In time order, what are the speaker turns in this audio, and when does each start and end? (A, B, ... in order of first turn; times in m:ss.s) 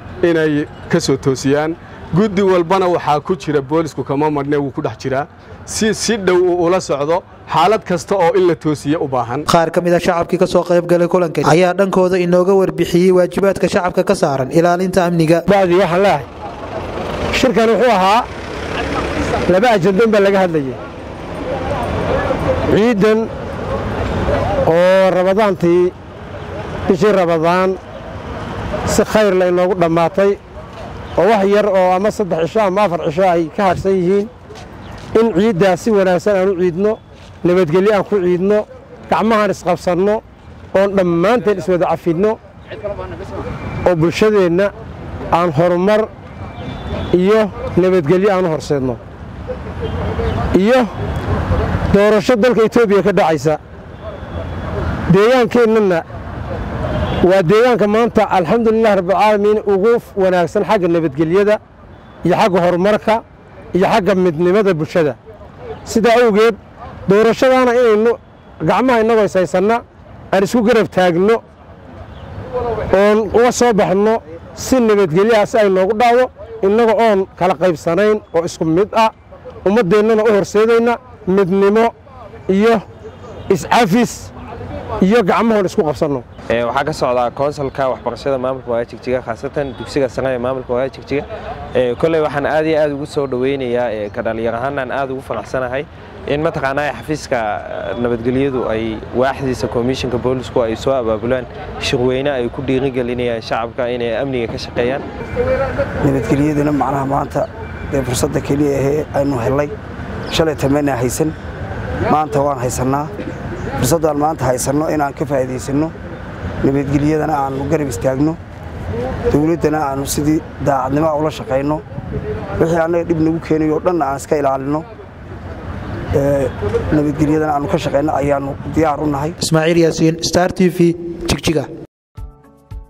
0:00.2-0:09.4 A
0:09.5-0:15.4 B
0:15.5-0:16.3 C
0:17.3-0:18.3 C
0:19.5-0:20.8 C
0:22.7-0:23.3 C
0:24.7-0:26.0 C
0:26.9-0:27.8 C
0:28.9-0:30.4 C
0:31.2-0:34.3 C
0:35.1-0:40.2 C
0:40.7-0:42.4 C
0:43.8-0:44.7 C
0:45.3-0:46.1 C
0:47.1-0:49.0 C
0:50.5-0:50.9 C
0:51.9-0:53.6 C
0:55.1-0:56.0 C
0:57.2-1:01.6 C
1:02.2-1:03.2 C
1:03.7-1:05.2 C
1:05.8-1:11.4 C
1:12.9-1:19.1 C
1:19.6-1:21.9 C
1:22.5-1:22.9 C
1:23.5-1:24.3 C
1:25.0-1:26.3 C
1:26.5-1:45.0 D
1:46.0-1:49.8 E
1:50.3-1:51.4 E
1:52.1-1:53.1 E
1:53.8-1:55.9 E
1:56.6-1:58.4 E
1:59.3-2:01.8 E
2:02.6-2:04.9 E
2:06.1-2:09.4 E
2:09.4-2:11.7 B